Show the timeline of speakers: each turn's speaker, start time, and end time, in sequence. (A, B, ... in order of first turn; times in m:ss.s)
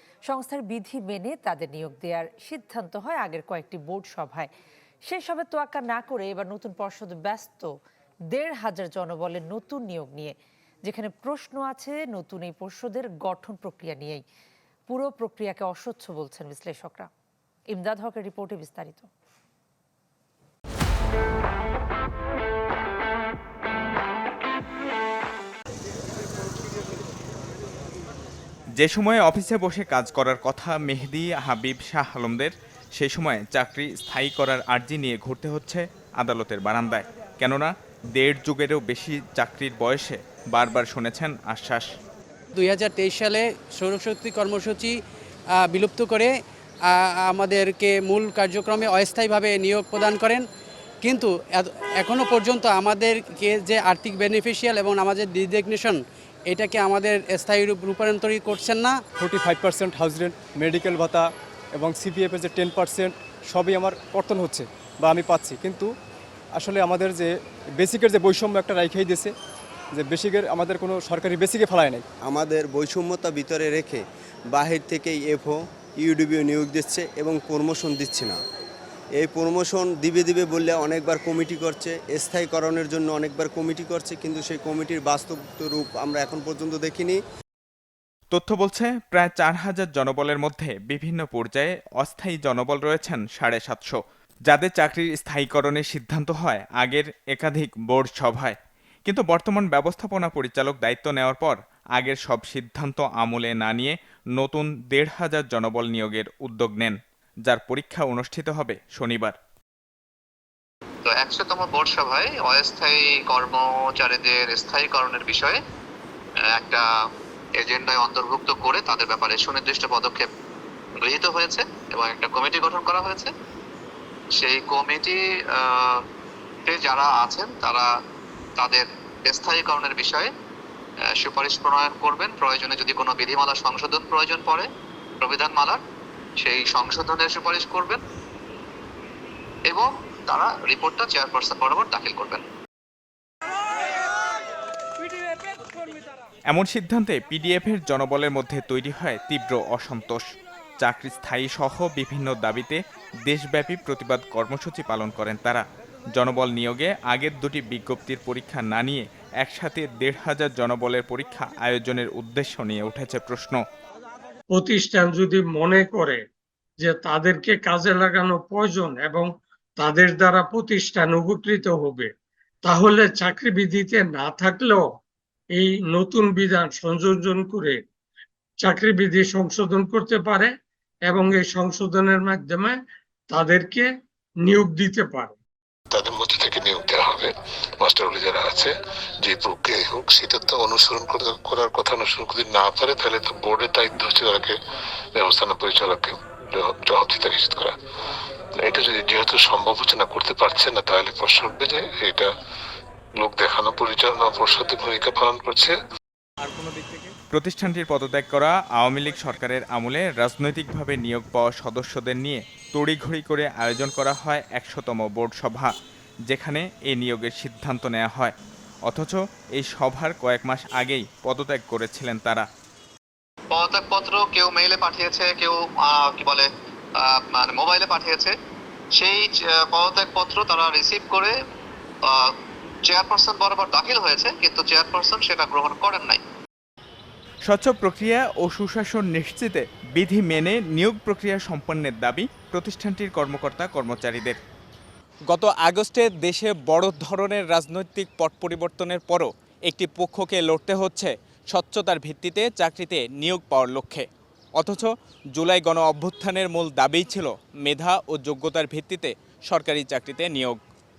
0:00.2-0:04.5 A
0:05.0-0:07.7 A
0:08.3-0:14.2 A
0:14.9-0:17.1 A
0:17.7-0:19.1 A
0:28.8-0:41.9 B
0:42.5-0:44.9 C
0:45.6-0:46.3 C
0:46.9-0:50.4 C
0:51.0-0:59.0 C
0:59.2-1:05.9 D
1:06.5-1:09.3 D
1:09.9-1:12.0 D
1:12.2-1:18.4 E
1:19.2-1:27.2 E
1:28.3-1:49.3 B
1:51.0-1:55.6 F
1:56.5-1:56.8 F
1:57.6-2:00.3 F
2:01.0-2:03.3 F
2:04.4-2:06.0 F
2:06.6-2:07.9 F
2:08.6-2:10.3 F
2:11.2-2:14.7 F
2:15.2-2:15.8 F
2:16.4-2:18.0 F
2:19.7-2:22.4 F
2:26.5-2:30.2 B
2:30.8-2:43.6 B
2:44.5-2:46.2 G
2:46.8-2:52.1 G
2:52.6-2:54.8 G
2:55.5-2:57.8 G
2:58.6-3:00.5 G
3:01.0-3:02.8 G
3:03.3-3:03.9 G
3:04.4-3:05.4 G
3:05.9-3:14.6 H
3:15.2-3:17.7 H
3:18.6-3:22.3 H
3:23.2-3:25.8 H
3:26.4-3:35.7 B
3:36.3-3:38.3 B
3:38.8-3:42.5 B
3:43.5-3:46.5 F
3:47.0-3:48.3 F
3:49.0-3:51.3 F
3:52.8-3:56.2 F
3:57.4-4:04.4 B
4:05.3-4:20.6 B